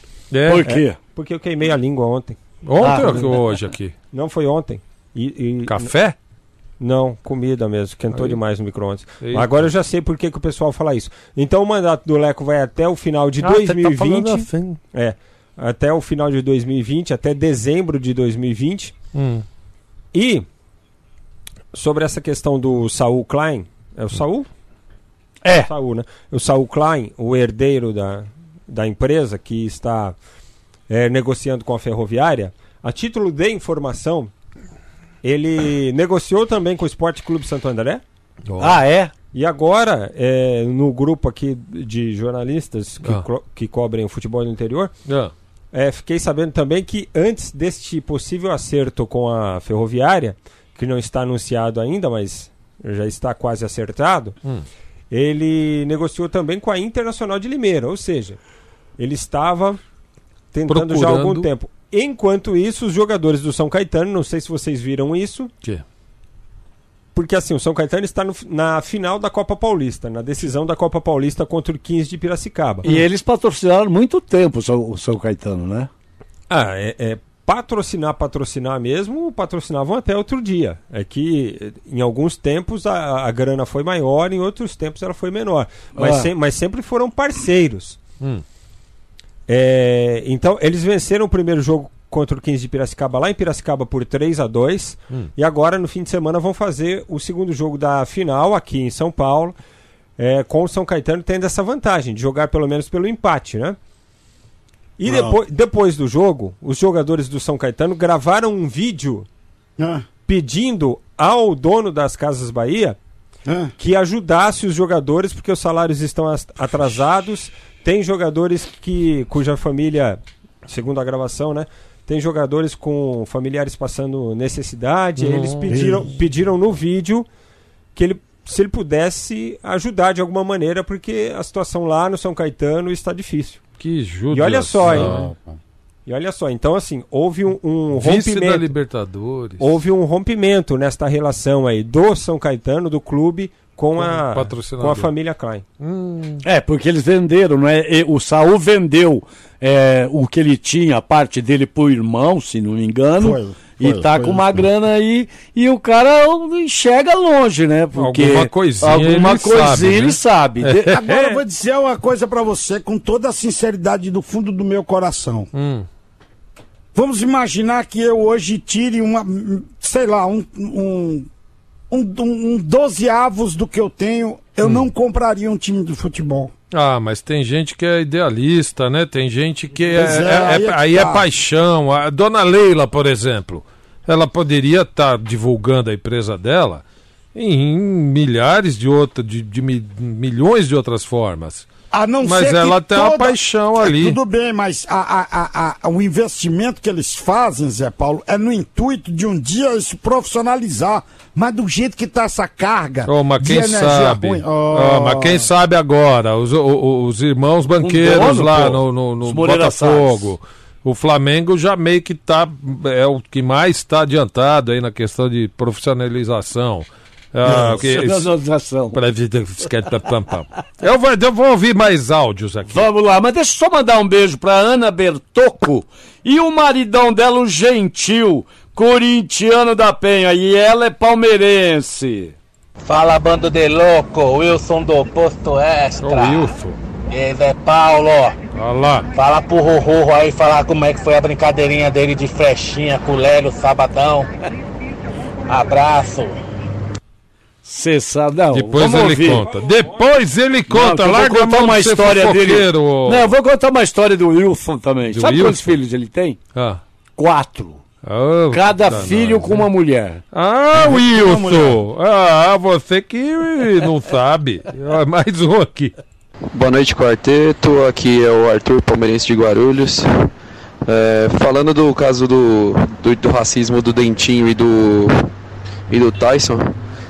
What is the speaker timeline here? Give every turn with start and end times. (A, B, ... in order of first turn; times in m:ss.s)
0:00.3-0:00.7 A
0:00.5-0:01.0 B
0:00.6-0:02.4 C
0:02.6-0:03.9 A
0:02.8-0:03.4 B
0:04.1-0:05.9 C
0:05.7-0:06.2 A
0:06.8-0:19.0 C
0:08.1-0:08.4 A
0:09.2-0:09.7 A
0:13.4-0:14.8 A
0:19.1-0:19.4 A
0:20.1-0:20.4 C
0:21.7-0:24.5 C
0:25.4-0:25.7 B
0:25.6-0:30.2 C
0:30.9-0:34.3 C
0:35.2-0:38.0 C
0:38.5-0:38.8 A
0:38.6-0:39.1 B
0:39.3-0:44.9 C
0:45.1-0:45.3 A
0:45.7-0:54.4 C
0:55.1-0:58.4 C
0:59.0-0:59.8 C
1:00.5-1:05.5 C
1:00.7-1:01.5 A
1:07.1-1:12.9 C
1:12.8-1:15.9 B
1:16.5-1:28.0 C
1:26.0-1:26.3 B
1:29.5-1:39.6 C
1:40.2-1:43.8 C
1:45.0-1:49.3 C
1:45.0-1:45.4 D
1:49.8-1:50.0 D
1:50.3-1:53.0 C
1:53.5-1:53.7 D
1:53.8-2:07.3 C
2:05.2-2:05.8 A
2:05.7-2:06.0 D
2:08.0-2:13.6 C
2:13.8-2:15.3 A
2:14.3-2:15.2 C
2:16.1-2:18.7 C
2:18.0-2:19.7 A
2:19.6-2:25.6 C
2:24.0-2:25.1 A
2:25.8-2:26.4 A
2:26.4-2:41.0 B
2:33.2-2:34.6 D
2:38.0-2:41.4 A
2:40.9-2:45.5 D
2:45.5-2:45.9 A
2:46.9-2:51.3 D
2:51.9-2:56.5 D
2:56.7-3:06.8 A
2:59.9-3:01.3 D
3:07.4-3:11.7 A
3:11.9-3:25.5 D
3:12.2-3:14.2 A
3:23.1-3:38.3 A
3:27.8-3:30.3 B
3:37.4-3:39.0 B
3:38.9-3:42.8 A
3:42.7-3:52.4 B
3:52.9-3:56.5 E
3:56.0-3:56.8 A
3:57.1-3:58.4 E
3:58.6-3:59.1 A
3:59.1-4:04.3 E
4:05.5-4:06.4 E
4:07.6-4:09.5 B
4:08.5-4:13.3 A
4:10.7-4:16.4 B
4:15.1-4:15.8 A
4:16.6-4:16.8 A
4:17.2-4:17.8 B
4:18.0-4:19.7 A
4:18.5-4:20.2 B
4:20.3-4:26.0 A
4:20.8-4:21.7 D
4:26.5-4:30.3 F
4:30.9-4:35.3 F
4:35.9-4:36.7 F